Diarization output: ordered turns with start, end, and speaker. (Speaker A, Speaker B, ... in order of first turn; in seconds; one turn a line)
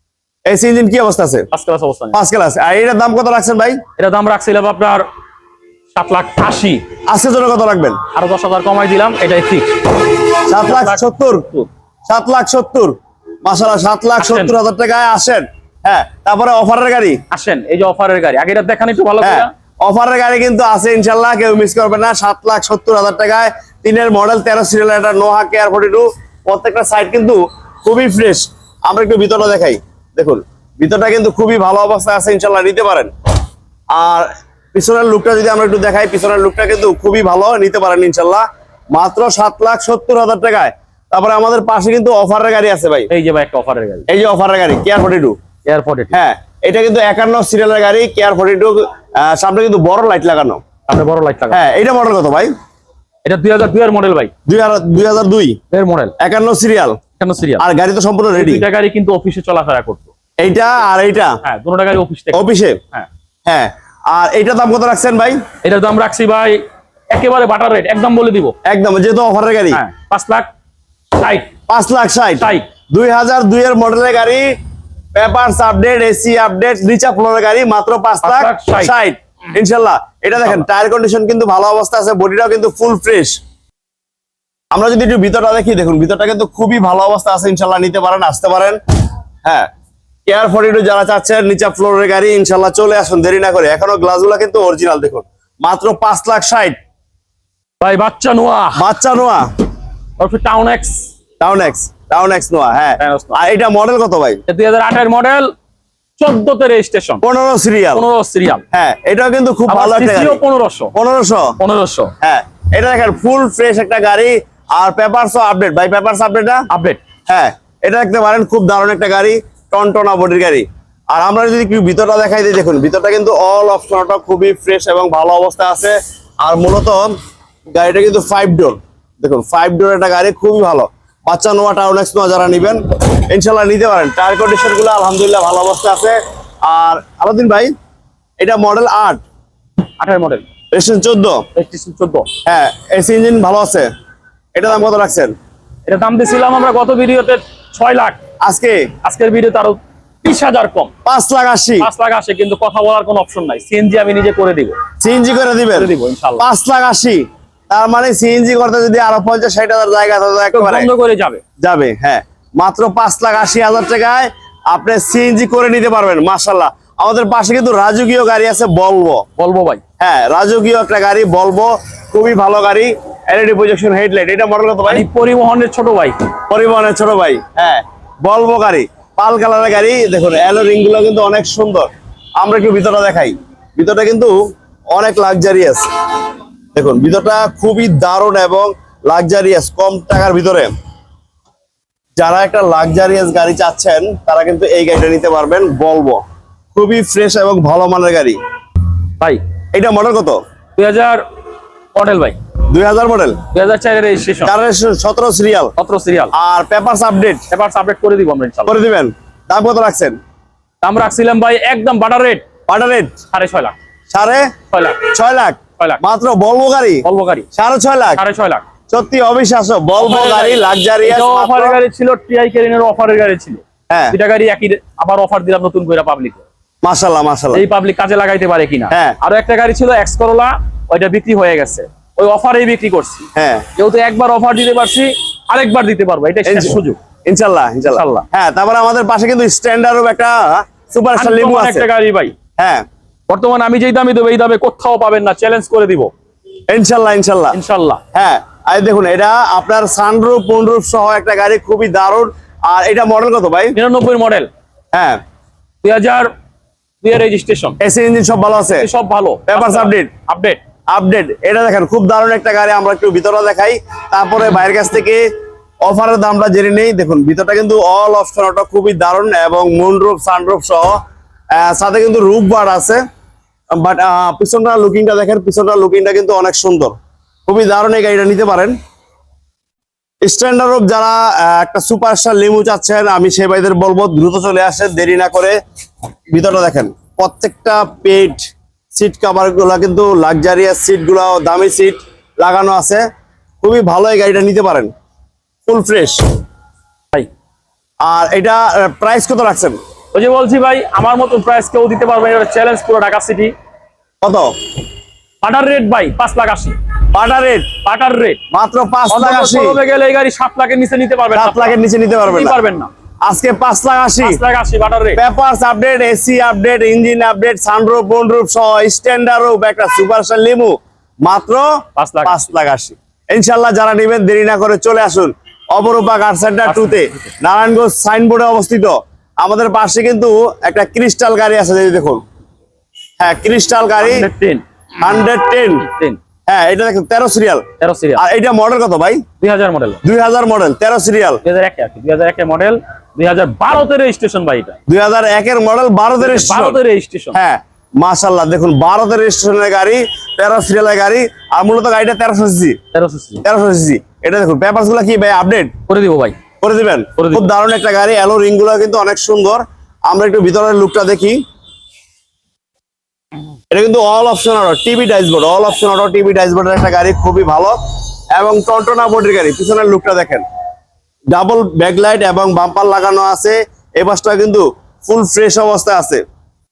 Speaker A: 0.5-1.5
Speaker B: 1.5-2.2
Speaker A: 2.1-3.8
Speaker B: 4.0-5.0
Speaker B: 5.9-6.9
Speaker A: 7.1-8.0
Speaker B: 8.1-11.7
Speaker A: 10.4-11.5
Speaker A: 12.1-17.2
Speaker B: 14.2-14.5
Speaker B: 17.3-19.5
Speaker A: 19.2-33.1
Speaker A: 33.9-43.1
Speaker B: 43.1-44.0
Speaker A: 44.1-45.4
Speaker B: 45.6-46.2
Speaker A: 46.1-50.6
Speaker B: 50.9-51.6
Speaker A: 51.5-52.5
Speaker B: 53.2-54.3
Speaker A: 54.5-55.6
Speaker B: 55.7-56.1
Speaker A: 56.2-57.0
Speaker B: 57.2-57.6
Speaker A: 57.6-58.6
Speaker B: 58.3-60.1
Speaker A: 60.4-61.4
Speaker B: 61.4-63.1
Speaker A: 62.3-62.8
Speaker A: 63.5-65.4
Speaker B: 65.6-68.5
Speaker A: 68.6-69.8
Speaker B: 69.7-70.5
Speaker B: 71.2-71.5
Speaker A: 71.7-74.5
Speaker B: 72.4-72.6
Speaker A: 75.1-83.4
Speaker B: 78.2-78.9
Speaker A: 84.7-88.8
Speaker A: 90.2-96.8
Speaker B: 97.8-98.8
Speaker A: 98.7-99.5
Speaker B: 100.2-101.1
Speaker A: 101.4-104.4
Speaker B: 103.0-103.4
Speaker B: 104.5-105.5
Speaker B: 106.2-107.2
Speaker A: 107.2-108.0
Speaker B: 107.9-108.6
Speaker A: 108.7-110.4
Speaker B: 109.7-110.9
Speaker A: 110.9-111.5
Speaker B: 111.6-112.1
Speaker A: 112.2-116.6
Speaker B: 116.7-117.0
Speaker A: 117.3-127.1
Speaker A: 127.7-137.7
Speaker A: 138.4-139.2
Speaker B: 140.0-140.5
Speaker A: 140.7-141.4
Speaker B: 141.5-142.3
Speaker A: 142.4-143.9
Speaker A: 144.5-145.3
Speaker B: 145.9-148.2
Speaker A: 148.4-148.9
Speaker B: 149.0-150.9
Speaker A: 151.0-151.9
Speaker B: 151.8-154.8
Speaker A: 155.0-160.9
Speaker B: 155.7-156.4
Speaker B: 160.5-161.4
Speaker A: 161.6-169.2
Speaker B: 169.4-169.8
Speaker A: 170.0-175.1
Speaker B: 174.8-176.3
Speaker A: 176.5-184.4
Speaker A: 184.9-185.8
Speaker A: 186.7-190.7
Speaker A: 192.2-196.2
Speaker A: 196.7-198.4
Speaker A: 199.7-200.4
Speaker B: 200.8-201.2
Speaker B: 201.9-202.4
Speaker A: 202.7-203.4
Speaker B: 203.5-204.5
Speaker A: 204.4-205.7
Speaker B: 205.8-206.3
Speaker A: 206.3-207.4
Speaker B: 207.5-208.8
Speaker A: 208.7-210.2
Speaker B: 210.8-212.4
Speaker A: 212.7-213.1
Speaker B: 213.3-213.7
Speaker A: 214.1-218.2
Speaker B: 214.7-215.1
Speaker B: 217.0-217.5
Speaker B: 218.2-218.7
Speaker A: 218.9-221.8
Speaker B: 220.0-226.4
Speaker A: 223.9-224.2
Speaker A: 226.8-227.6
Speaker B: 227.5-237.0
Speaker A: 228.9-229.2
Speaker A: 233.3-233.7
Speaker A: 236.4-241.9
Speaker B: 237.8-238.2
Speaker B: 241.2-242.3
Speaker A: 242.6-242.8
Speaker B: 243.3-246.1
Speaker A: 246.7-247.6
Speaker B: 247.5-248.0
Speaker A: 248.1-253.7
Speaker B: 253.7-254.5
Speaker A: 254.9-255.2
Speaker B: 255.8-256.3
Speaker B: 257.0-257.8
Speaker A: 257.8-258.9
Speaker B: 258.7-260.6
Speaker A: 259.5-260.1
Speaker A: 260.9-265.2
Speaker A: 265.8-271.0
Speaker A: 271.5-273.0
Speaker A: 273.7-276.9
Speaker A: 277.5-278.8
Speaker A: 280.2-285.6
Speaker A: 286.3-293.0
Speaker A: 293.6-294.9
Speaker A: 295.6-296.2
Speaker A: 298.0-299.8
Speaker B: 300.1-303.5
Speaker A: 304.2-304.5
Speaker B: 305.4-306.8
Speaker A: 307.1-307.7
Speaker B: 307.8-308.4
Speaker A: 308.5-309.8
Speaker B: 309.1-312.9
Speaker A: 311.3-312.6
Speaker A: 313.2-314.4
Speaker B: 314.2-315.2
Speaker A: 315.2-321.7
Speaker B: 321.9-322.4
Speaker A: 322.2-332.2
Speaker B: 326.6-327.2
Speaker A: 333.2-334.3
Speaker B: 334.0-334.6
Speaker A: 335.0-335.9
Speaker B: 335.8-336.2
Speaker A: 336.5-337.6
Speaker B: 337.8-338.2
Speaker A: 338.2-339.2
Speaker B: 339.4-340.0
Speaker A: 340.0-341.4
Speaker B: 341.4-344.8
Speaker A: 344.9-346.8
Speaker B: 346.2-347.4
Speaker A: 347.3-352.8
Speaker B: 352.9-353.4
Speaker A: 353.4-355.7
Speaker B: 355.9-356.4
Speaker A: 356.6-361.4
Speaker B: 357.2-357.5
Speaker A: 363.7-367.8
Speaker A: 368.3-370.4
Speaker A: 371.3-376.2